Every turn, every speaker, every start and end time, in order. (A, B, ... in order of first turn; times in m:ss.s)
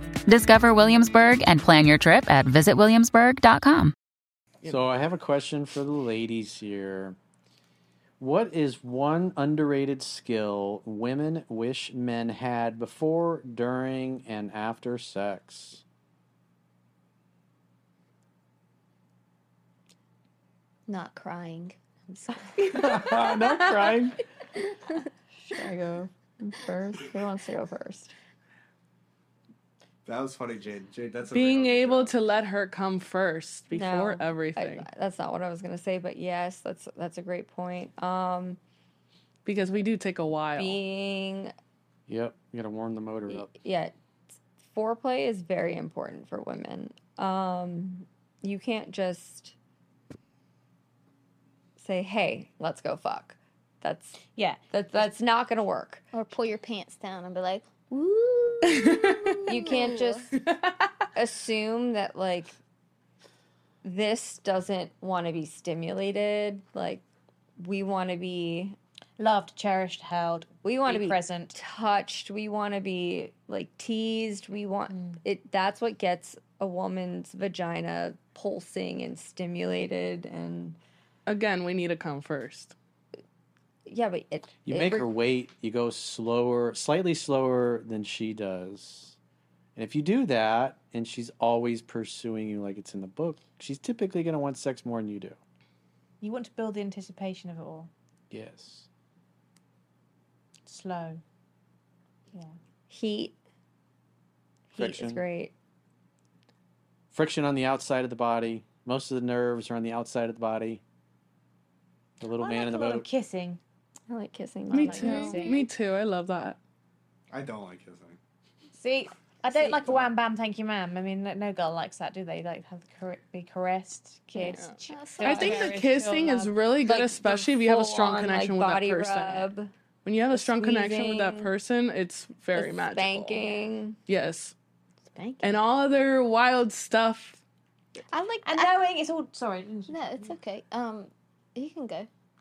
0:00.3-0:03.9 A
0:04.6-0:07.2 B
0:08.2-0:15.8 B
0:20.9-0:23.3 C
0:22.6-0:24.2 B
0:25.4-0:28.1 D
0:30.1-0:31.3 E
0:31.3-0:34.9 F
0:33.7-0:38.6 D
0:39.4-0:40.8 F
0:40.5-0:41.5 D
0:42.1-0:43.5 B
0:43.3-0:43.9 D
0:44.6-0:49.5 D
0:51.8-0:56.0 D
0:56.1-1:00.3 C
0:58.7-0:59.6 F
0:59.5-1:00.3 D
1:00.4-1:00.8 F
1:01.1-1:02.6 D
1:03.8-1:07.0 D
1:07.6-1:08.8 D
1:09.2-1:11.5 G
1:10.6-1:20.8 D
1:21.2-1:22.7 F
1:23.8-1:25.1 D
1:24.6-1:29.2 B
1:29.8-1:35.4 B
1:36.2-1:37.9 G
1:38.3-1:38.9 B
1:40.6-1:41.2 G
1:42.9-1:43.4 D
1:44.7-1:45.5 D
1:44.8-1:45.2 B
1:47.1-1:50.8 B
1:52.2-1:53.1 B
1:52.4-1:53.6 G
1:54.1-1:55.6 D
1:54.7-1:55.7 G
1:54.7-1:56.6 F
1:57.4-1:58.1 E
1:58.7-2:06.5 G
1:59.5-1:59.8 D
2:04.5-2:09.5 F
2:04.9-2:05.7 C
2:06.8-2:09.7 D
2:10.0-2:14.5 F
2:10.3-2:11.5 D
2:12.5-2:14.0 D
2:15.1-2:15.6 C
2:15.4-2:17.4 F
2:18.1-2:18.8 C
2:18.4-2:20.3 G
2:19.9-2:22.1 C